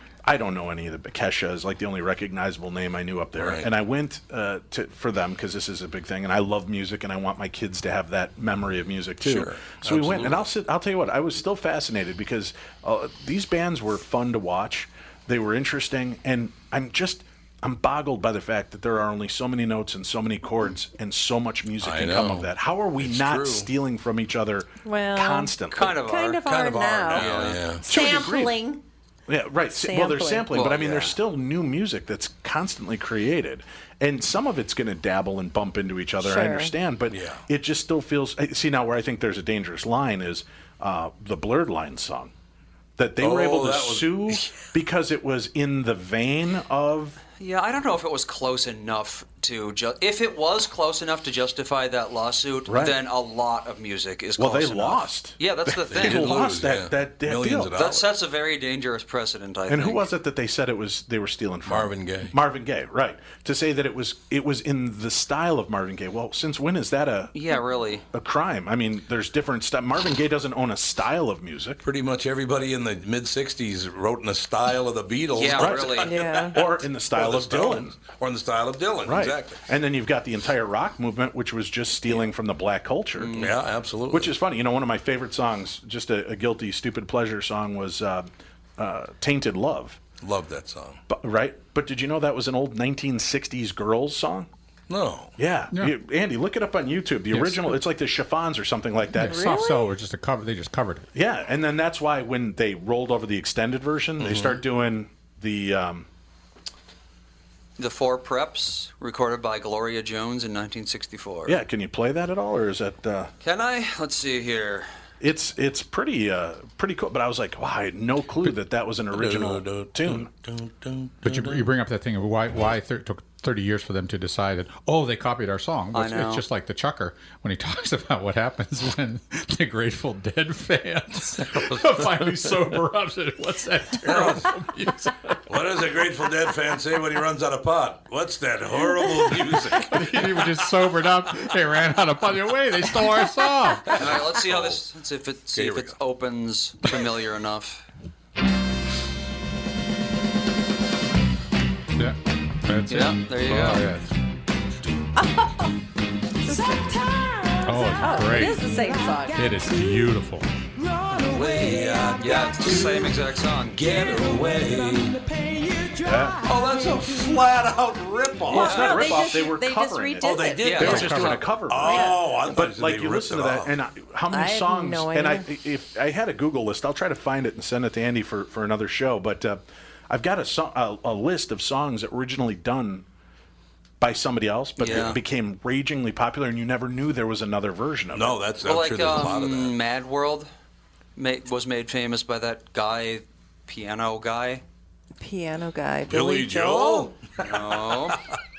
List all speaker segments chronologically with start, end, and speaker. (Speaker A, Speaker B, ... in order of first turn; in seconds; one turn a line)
Speaker A: 0.2-26.0
Speaker B: 3.4-3.7
Speaker B: 9.2-10.5
Speaker B: 21.8-23.7
Speaker C: 24.9-28.8
Speaker D: 25.7-26.4
Speaker B: 26.4-27.9
Speaker D: 27.1-27.7
Speaker A: 27.8-28.6
Speaker A: 29.3-42.3
Speaker C: 29.7-30.5
Speaker D: 30.5-31.2
Speaker C: 36.2-36.7
Speaker B: 37.1-37.5
Speaker A: 43.0-47.2
Speaker B: 43.2-44.6
Speaker D: 47.4-56.4
Speaker A: 52.7-53.0
Speaker A: 54.4-57.7
Speaker B: 55.9-58.1
Speaker D: 57.7-60.1
Speaker A: 59.7-67.4
Speaker B: 61.7-62.4
Speaker D: 67.3-68.0
Speaker A: 68.1-71.8
Speaker B: 71.8-79.6
Speaker D: 75.3-76.3
Speaker A: 75.6-78.0
Speaker C: 76.0-76.7
Speaker A: 79.0-83.4
Speaker D: 83.2-83.5
Speaker B: 83.3-84.3
Speaker A: 84.1-90.0
Speaker B: 90.2-91.0
Speaker A: 91.1-94.5
Speaker B: 94.9-95.3
Speaker A: 95.4-99.6
Speaker E: 97.3-97.8
Speaker E: 99.2-101.1
Speaker C: 99.2-99.9
Speaker A: 101.1-106.1
Speaker B: 104.2-104.6
Speaker D: 107.8-111.6
Speaker A: 111.5-113.3
Speaker D: 113.4-114.9
Speaker A: 115.2-120.3
Speaker B: 119.1-121.7
Speaker E: 121.2-135.4
Speaker D: 125.9-126.4
Speaker B: 131.4-132.4
Speaker B: 134.0-134.5
Speaker B: 135.5-140.1
Speaker E: 139.8-144.0
Speaker B: 143.8-144.8
Speaker D: 143.9-147.8
Speaker B: 145.5-146.0
Speaker E: 152.0-154.1
Speaker D: 152.9-153.8
Speaker C: 155.2-155.6
Speaker C: 156.5-156.8
Speaker E: 157.6-158.7
Speaker C: 158.0-159.5
Speaker E: 159.3-160.5
Speaker B: 161.2-163.1
Speaker D: 161.3-161.6
Speaker D: 162.2-163.9
Speaker B: 163.7-165.3
Speaker A: 166.0-166.4
Speaker B: 166.4-169.0
Speaker D: 168.5-169.2
Speaker A: 168.5-183.1
Speaker C: 168.5-171.2
Speaker B: 170.2-173.8
Speaker D: 170.6-171.6
Speaker C: 171.7-172.2
Speaker C: 174.3-175.5
Speaker A: 184.0-188.4
Speaker D: 184.8-185.2
Speaker B: 184.8-185.2
Speaker B: 188.1-189.8
Speaker D: 188.6-190.5
Speaker D: 191.2-194.6
Speaker C: 195.2-197.1
Speaker B: 196.1-198.3
Speaker D: 197.4-198.2